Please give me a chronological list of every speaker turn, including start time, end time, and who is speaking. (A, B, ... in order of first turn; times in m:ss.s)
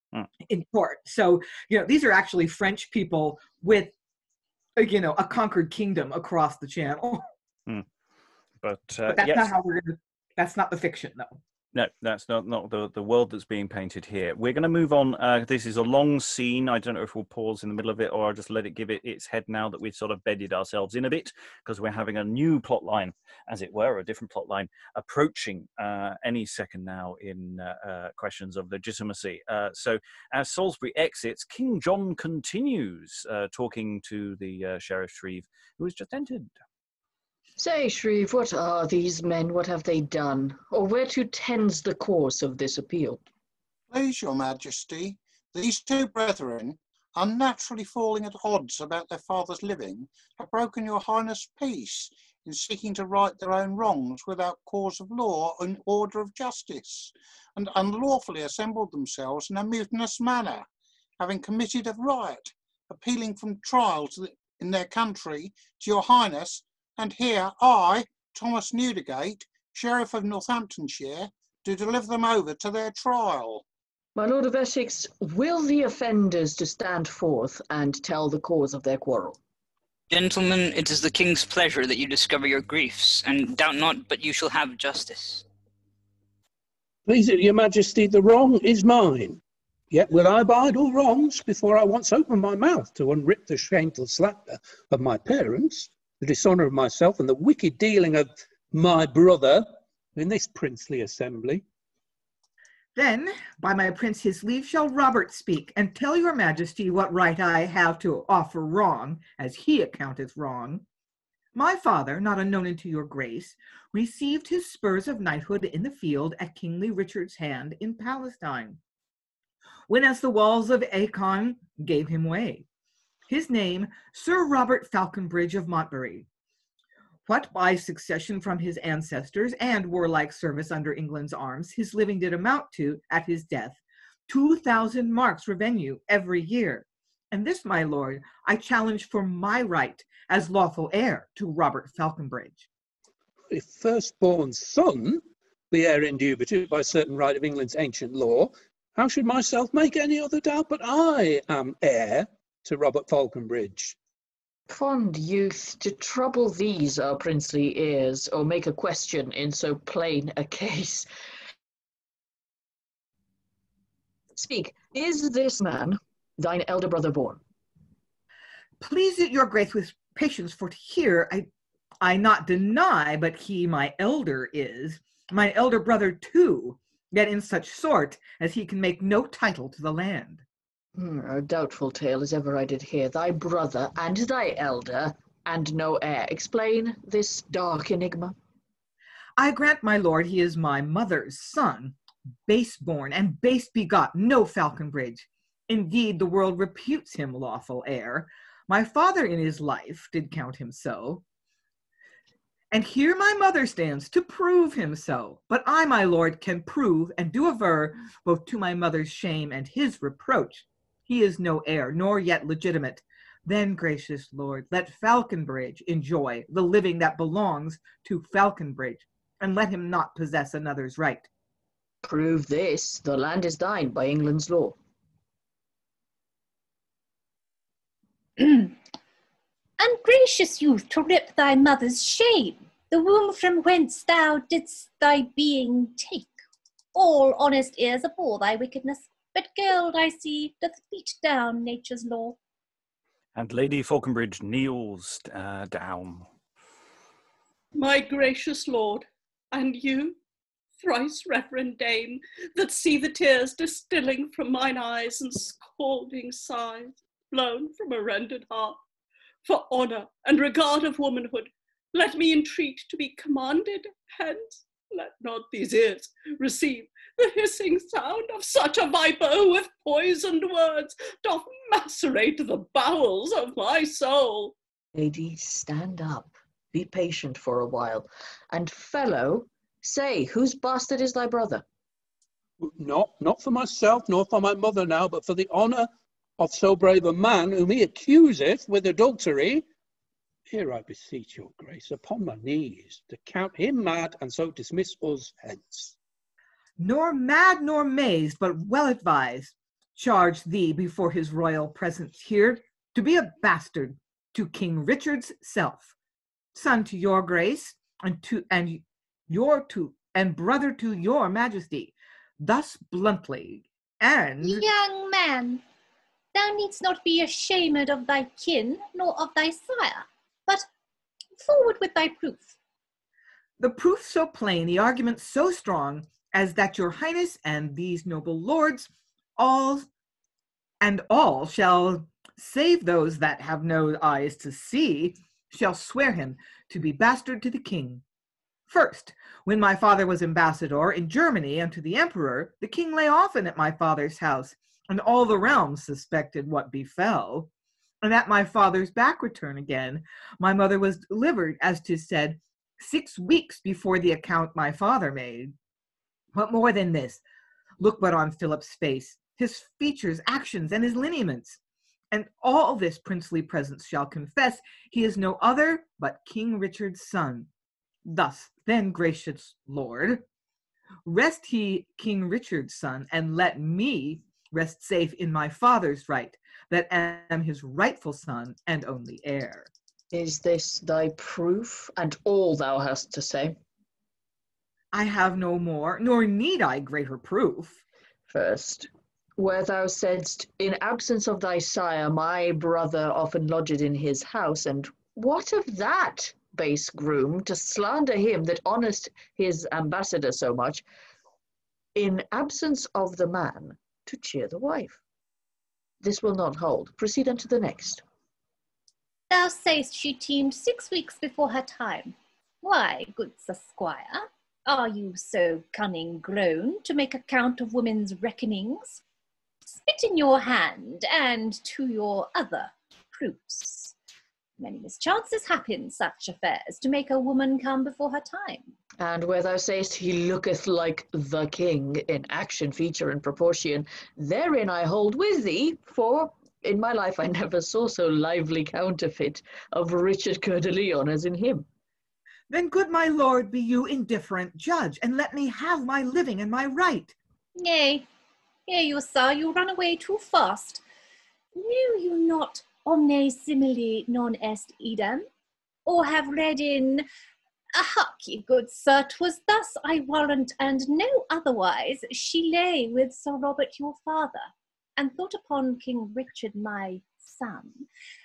0:00.4-0:03.9 A
0:04.8-0:07.2 A
0:08.6-0:09.5 B
0:09.1-0:11.4 A
0:11.7-0:36.5 B
0:37.6-0:43.2 C
0:43.9-1:00.6 D
1:01.2-1:13.6 D
1:14.2-1:19.4 C
1:20.1-1:25.4 E
1:27.0-1:41.6 F
1:43.0-1:50.8 A
1:51.5-1:58.8 A
1:59.9-2:02.6 A
2:03.3-2:06.3 A
2:07.3-2:22.7 A
2:23.5-2:34.0 F
2:34.7-2:41.1 C
2:44.3-2:47.4 C
2:48.8-2:51.5 A
2:52.0-3:00.4 A
3:01.0-3:08.3 C
3:09.4-3:21.2 A
3:22.7-3:41.3 A
3:42.0-3:44.8 C
3:48.4-3:48.7 G
3:49.8-3:56.3 G
3:56.9-4:02.4 G
4:03.4-4:06.3 B
4:07.8-4:10.2 H
4:10.8-4:18.8 H
4:19.4-4:34.5 H
4:34.9-4:41.6 C
4:42.6-4:49.6 F
4:50.5-4:55.9 F
4:56.8-5:05.9 A
5:06.5-5:14.6 A
5:14.4-5:15.6 G
5:16.3-5:20.7 G
5:21.4-5:22.5 G
5:23.6-5:29.9 A
5:30.8-5:38.0 A
5:38.7-5:47.5 A
5:48.0-5:55.5 A
5:56.3-5:57.2 A
5:57.8-6:01.6 A
6:02.1-6:07.5 A
6:08.0-6:10.2 A
6:11.0-6:19.7 A
6:20.1-6:23.6 C
6:24.9-6:27.8 A
6:28.3-6:40.8 C
6:41.9-6:45.0 C
6:46.0-6:48.0 C
6:49.3-6:59.0 G
6:59.8-7:03.9 G
7:04.6-7:08.7 G
7:09.0-7:21.7 C
7:22.5-7:27.1 A
7:27.6-7:28.0 G
7:28.7-7:30.8 G
7:31.5-7:35.3 G
7:35.8-7:37.0 G
7:37.7-7:47.8 G